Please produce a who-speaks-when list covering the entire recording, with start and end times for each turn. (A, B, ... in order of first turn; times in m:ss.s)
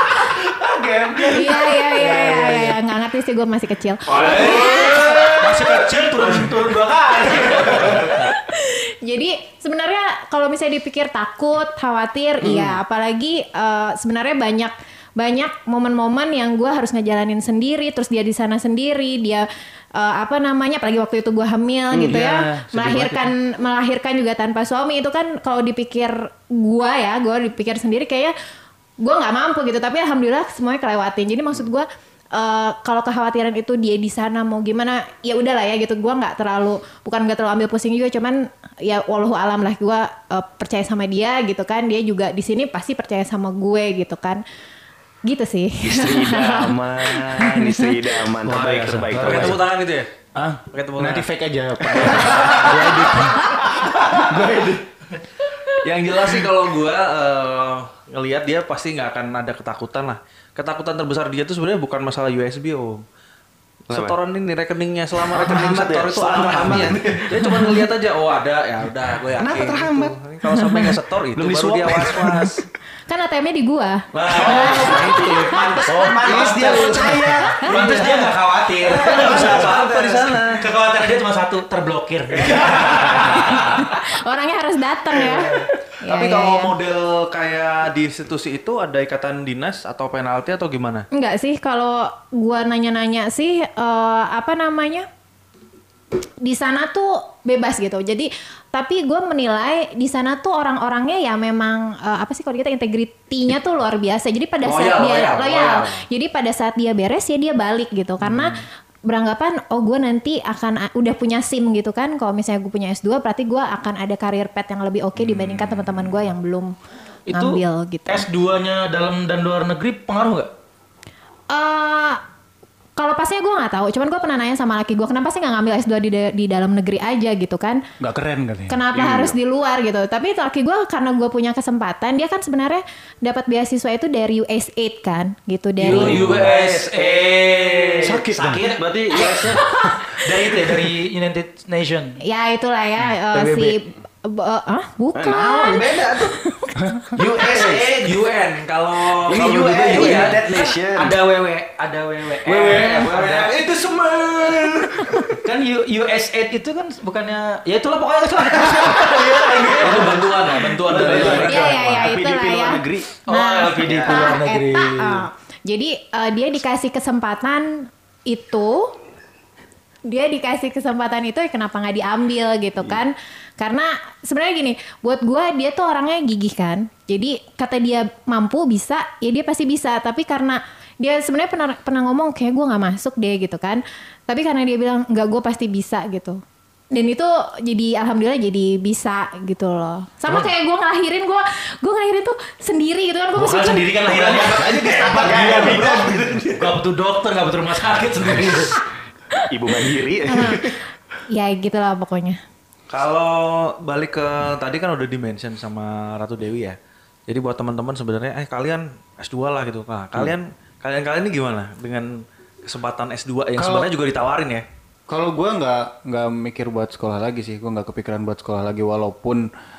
0:00.5-0:02.8 A
0:01.2-0:05.4 B
0:04.1-0:06.3 A
0:04.1-0:08.3 C
0:08.1-0:28.3 B
0:12.4-0:12.7 A
0:21.9-0:22.2 A
0:22.1-0:23.2 C
0:29.0-0:44.4 B
0:45.2-0:47.9 B
0:45.8-0:49.6 A
0:48.4-0:50.1 D
0:48.5-0:49.6 C
0:50.3-0:54.8 E
0:50.7-0:51.3 D
0:55.7-1:03.0 D
1:03.9-1:12.6 D
1:03.9-1:04.2 A
1:05.2-1:07.8 A
1:09.4-1:10.1 A
1:10.5-1:10.8 B
1:11.4-1:12.6 A
1:13.1-1:16.0 B
1:14.2-1:18.1 D
1:14.2-1:20.6 A
1:14.4-1:20.0 C
1:18.9-1:20.5 D
1:20.6-1:23.9 C
1:23.4-1:26.7 B
1:25.3-1:25.7 C
1:26.0-1:31.1 D
1:31.1-1:35.1 B
1:36.4-1:56.7 B
1:44.6-1:46.0 C
1:57.3-2:00.5 C
1:57.3-1:58.3 B
2:01.5-2:02.2 B
2:03.0-2:07.8 B
2:08.0-2:08.8 E
2:08.7-2:16.4 B
2:08.9-2:09.3 A
2:15.8-2:22.2 C
2:15.8-2:19.6 A
2:19.2-2:20.2 B
2:22.2-2:26.9 B
2:23.2-2:23.8 C
2:25.1-2:26.4 A
2:27.1-2:28.2 A
2:27.2-2:30.4 D
2:29.1-2:31.2 A
2:29.6-2:33.6 C
2:32.4-2:35.2 A
2:32.6-2:33.5 D
2:35.4-2:42.0 C
2:38.6-2:39.0 A
2:39.8-2:44.3 A
2:39.8-2:41.9 D
2:41.0-2:41.3 E
2:41.5-2:48.9 B
2:43.3-2:45.2 C
2:50.1-3:06.4 B
3:06.9-3:13.9 B
3:13.4-3:18.8 C
3:14.0-3:16.8 A
3:14.3-3:16.2 E
3:19.5-3:20.8 A
3:20.3-3:20.7 B
3:21.3-3:22.4 B
3:22.9-3:32.1 D
3:32.6-3:34.6 D
3:33.6-3:33.9 E
3:35.1-3:39.4 E